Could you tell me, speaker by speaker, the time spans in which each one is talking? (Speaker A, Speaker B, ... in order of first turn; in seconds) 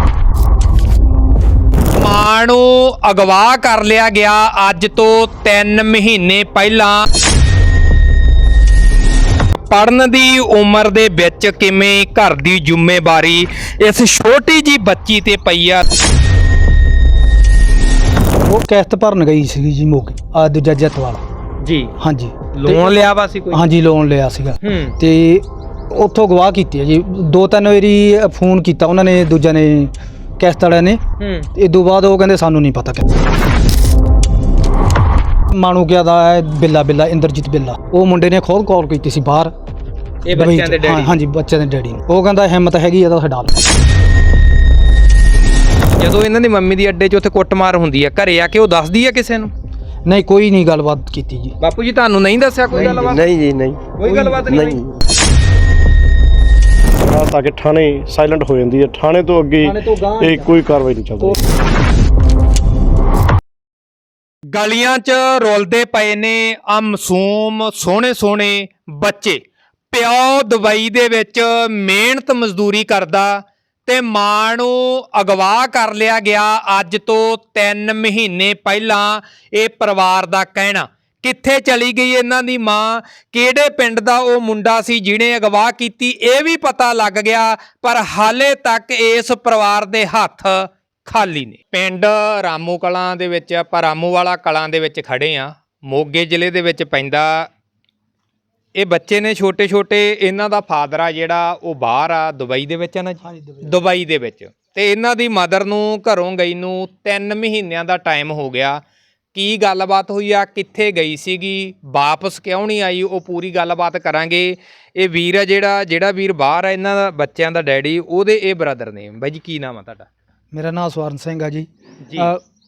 Speaker A: 1.9-7.0, 9.6-15.8, 21.6-21.9, 22.5-23.6, 24.6-25.0, 31.2-31.5, 40.2-41.2, 45.9-49.5, 51.6-53.3, 53.9-54.8, 64.5-97.5, 98.7-108.8, 109.3-120.1, 122.0-122.3
Speaker B: 18.4-21.2, 22.0-22.9, 23.5-31.0, 31.5-33.2, 35.5-39.5, 40.3-43.6, 50.1-51.5, 52.7-53.1, 54.0-54.5, 59.6-60.5, 103.2-103.8, 120.5-122.4
Speaker C: 52.7-55.0
Speaker D: 57.0-61.4